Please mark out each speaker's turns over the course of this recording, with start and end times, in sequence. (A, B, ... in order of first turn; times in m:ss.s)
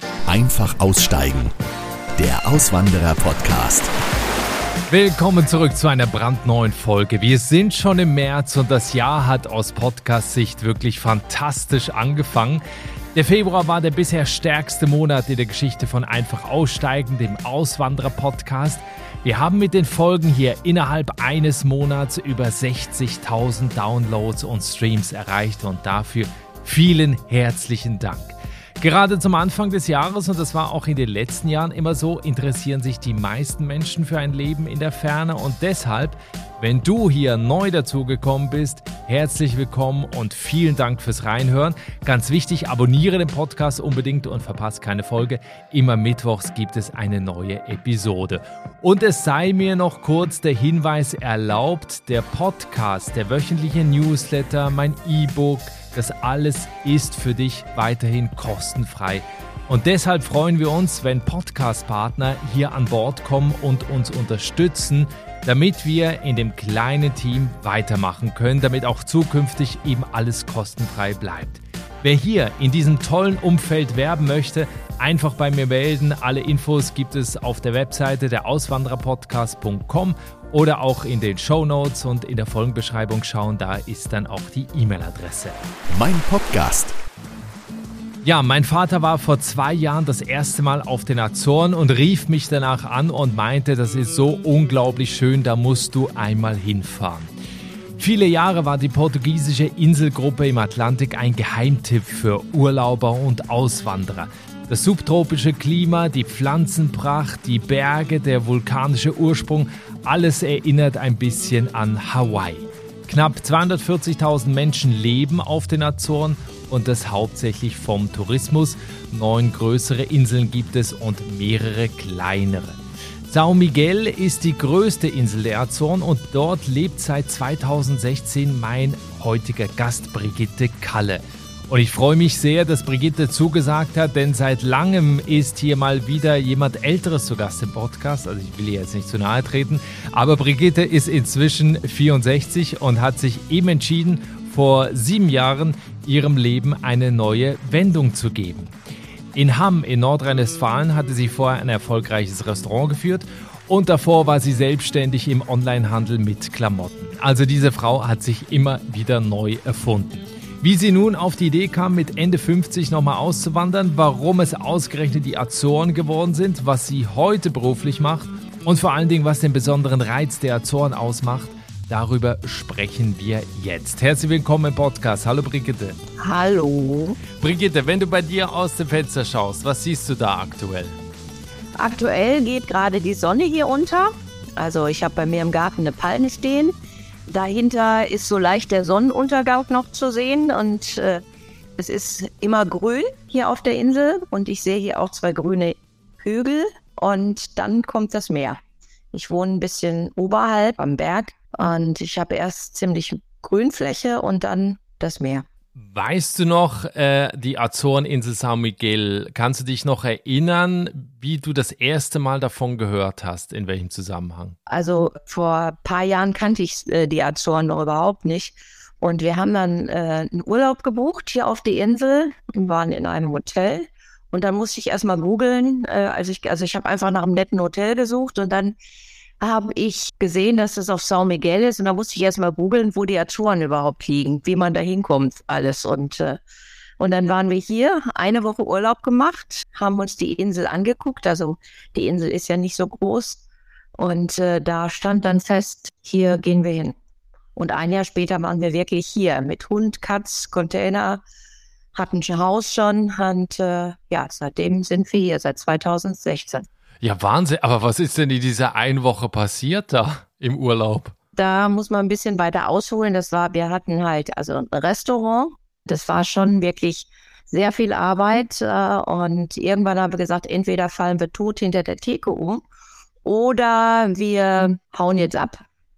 0:00.3-0:01.5 A
0:02.2-0:03.9 A
0:04.9-0:12.6 B
0:13.1-1:25.6 B
1:25.9-1:26.9 A
1:28.2-1:37.3 B
1:38.0-2:28.7 B
2:29.3-2:56.0 B
2:56.2-2:57.2 C
2:57.4-3:01.0 B
3:01.8-3:06.7 C
3:07.3-3:11.2 C
3:11.8-3:18.6 C
3:19.1-3:25.4 C
3:25.8-3:34.6 B
3:34.7-3:48.8 C
3:49.4-3:56.4 C
3:57.0-4:03.4 C
4:04.0-4:06.9 C
4:07.6-4:11.2 C
4:11.9-4:16.7 C
4:17.0-4:21.1 B
4:21.3-4:32.6 C
4:33.2-4:35.6 C